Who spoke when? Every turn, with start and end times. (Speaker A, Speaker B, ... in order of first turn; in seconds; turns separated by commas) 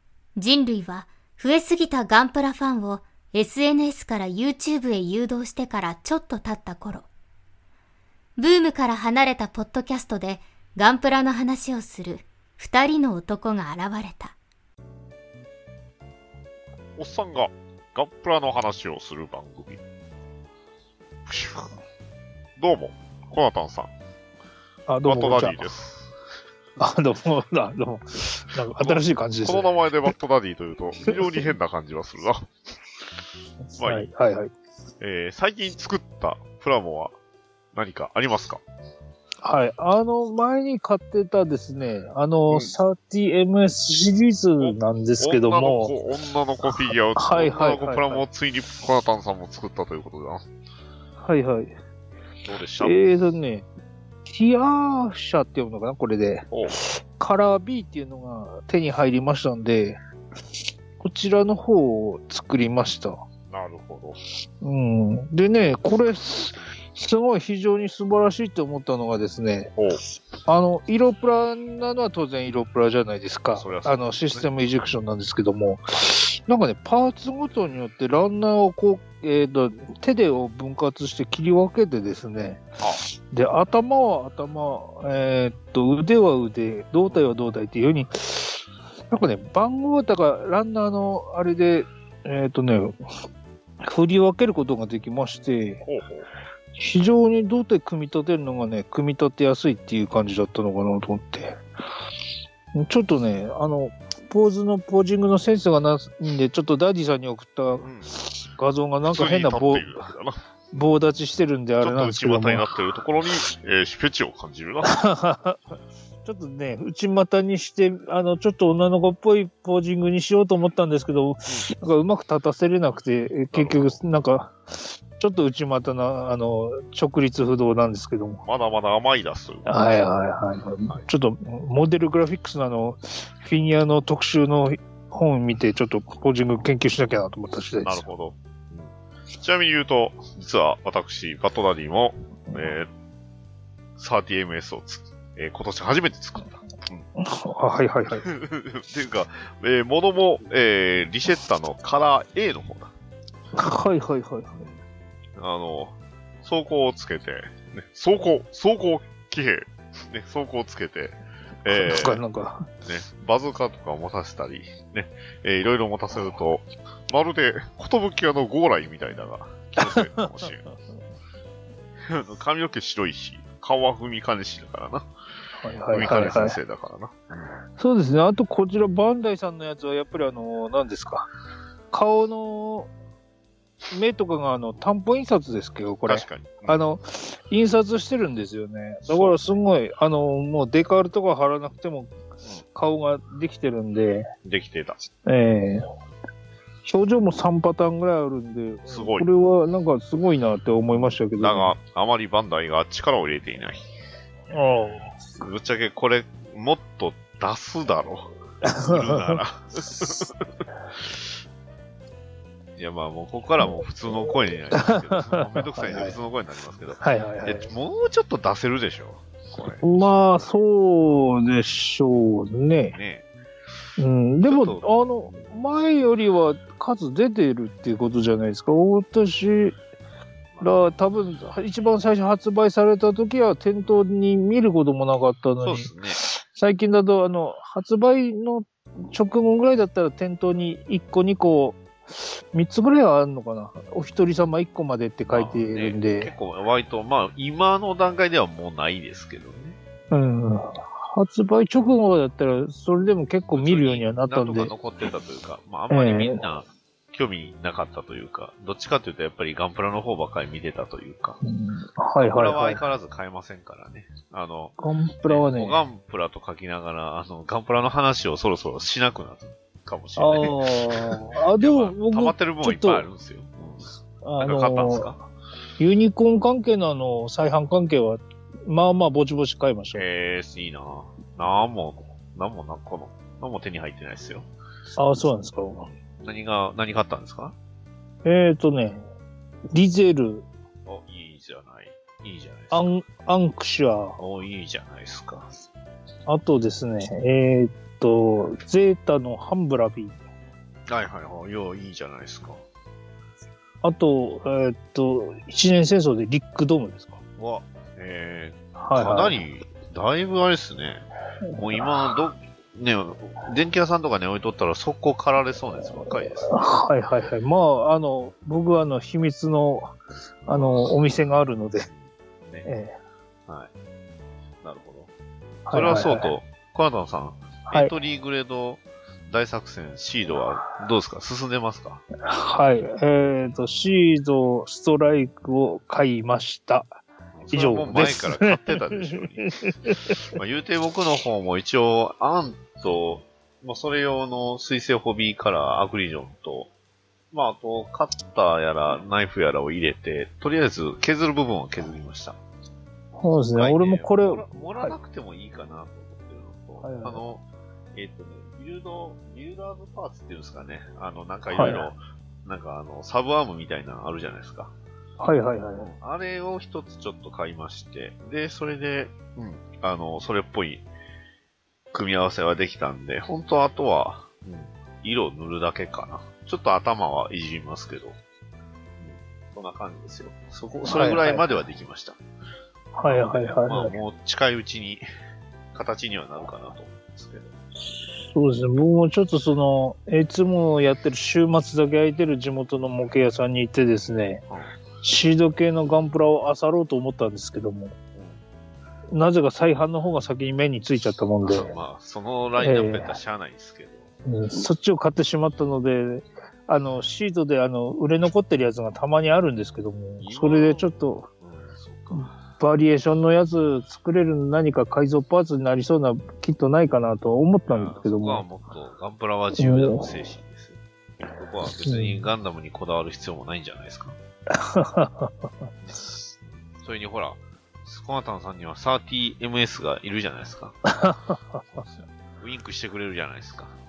Speaker A: 0.3-7.1, Speaker A: 8.4-14.3, Speaker B: 17.0-19.8, Speaker B: 21.2-21.7, Speaker B: 22.6-23.9, Speaker C: 24.9-25.7, Speaker B: 25.0-26.1, Speaker C: 26.8-30.1, Speaker B: 28.8-32.5, Speaker C: 31.1-31.4, Speaker C: 33.7-34.5, Speaker B: 33.8-34.1, Speaker B: 35.0-37.1, Speaker B: 37.7-38.6, Speaker C: 39.4-45.9, Speaker B: 44.6-50.4, Speaker C: 47.1-48.2, Speaker C: 51.2-51.7, Speaker B: 52.4-53.0, Speaker C: 52.8-53.7, Speaker C: 54.2-60.0, Speaker C: 61.0-63.2, Speaker B: 63.5-64.2, Speaker C: 64.6-69.7, Speaker C: 70.5-82.6, Speaker B: 73.5-74.5, Speaker B: 82.8-83.0, Speaker C: 83.3-93.0, Speaker C: 93.8-95.8, Speaker B: 95.8-96.3, Speaker C: 96.8-101.6, Speaker C: 102.7-110.1, Speaker B: 107.8-108.2, Speaker B: 109.1-110.4, Speaker C: 110.7-112.7, Speaker B: 111.8-115.0, Speaker C: 114.8-128.4, Speaker B: 123.5-124.0, Speaker B: 128.4-130.0, Speaker C: 129.7-138.0, Speaker B: 137.8-142.9, Speaker B: 144.0-147.0, Speaker C: 147.2-148.2, Speaker B: 148.2-152.9, Speaker C: 153.5-154.7, Speaker B: 155.3-162.2, Speaker C: 161.7-162.7, Speaker B: 162.8-170.7, Speaker C: 169.8-170.2, Speaker B: 172.0-175.1, Speaker C: 175.6-176.6, Speaker B: 175.9-177.6, Speaker C: 177.8-181.3, Speaker C: 181.9-182.9, Speaker C: 183.9-192.1, Speaker B: 186.1-186.8, Speaker B: 189.0-189.6, Speaker C: 192.7-194.3, Speaker B: 194.4-195.0, Speaker C: 195.2-195.9, Speaker C: 196.8-201.7, Speaker B: 198.9-199.3, Speaker B: 200.9-203.8, Speaker C: 204.5-205.1, Speaker B: 205.4-208.3, Speaker C: 208.6-209.4, Speaker B: 208.8-210.4, Speaker B: 212.8-220.5, Speaker C: 214.7-216.2, Speaker C: 217.0-217.7, Speaker C: 219.8-222.9, Speaker B: 222.9-223.3, Speaker C: 224.0-229.8, Speaker B: 224.4-225.5, Speaker B: 230.5-230.8, Speaker C: 230.6-246.3, Speaker B: 235.6-236.2, Speaker B: 245.3-249.8, Speaker C: 250.1-254.7, Speaker B: 253.5-261.4, Speaker C: 255.9-256.4, Speaker C: 261.4-262.8, Speaker B: 262.2-273.9, Speaker C: 264.8-265.8, Speaker C: 270.2-273.0, Speaker C: 274.2-275.1, Speaker B: 274.4-275.2, Speaker C: 275.8-280.0, Speaker B: 279.9-284.5, Speaker C: 285.0-285.9, Speaker B: 286.0-287.5, Speaker C: 288.2-289.0, Speaker C: 289.7-290.4, Speaker B: 290.9-292.9, Speaker C: 292.7-294.2, Speaker B: 294.2-295.5, Speaker C: 296.3-300.2, Speaker B: 300.9-302.6, Speaker C: 303.8-307.2, Speaker B: 307.4-311.0, Speaker C: 308.8-309.3, Speaker B: 311.6-316.6, Speaker C: 311.6-311.9, Speaker C: 316.0-319.9, Speaker B: 320.4-320.9, Speaker C: 320.5-321.9, Speaker B: 321.9-322.6, Speaker C: 322.6-322.9, Speaker B: 324.6-325.1, Speaker C: 325.6-326.3, Speaker B: 325.7-332.0, Speaker C: 332.2-340.2, Speaker B: 337.4-346.7, Speaker B: 347.3-352.4, Speaker C: 353.2-354.9, Speaker B: 353.5-364.7, Speaker C: 356.8-357.2, Speaker C: 361.5-361.9, Speaker C: 365.2-365.9, Speaker B: 365.8-370.9, Speaker B: 371.9-378.1, Speaker B: 379.0-382.2, Speaker C: 380.8-381.5, Speaker C: 382.9-383.9, Speaker B: 383.1-385.0, Speaker B: 385.7-387.5, Speaker C: 388.2-394.4, Speaker C: 395.0-397.9, Speaker C: 399.1-401.7, Speaker B: 401.4-404.1, Speaker C: 402.6-403.2, Speaker C: 404.2-411.3, Speaker B: 410.2-410.9, Speaker B: 411.4-412.4, Speaker C: 412.1-418.4, Speaker B: 417.7-424.1, Speaker C: 419.6-420.1, Speaker C: 421.8-422.2, Speaker C: 424.5-425.5, Speaker B: 426.5-430.8, Speaker C: 430.9-431.6, Speaker B: 431.7-433.8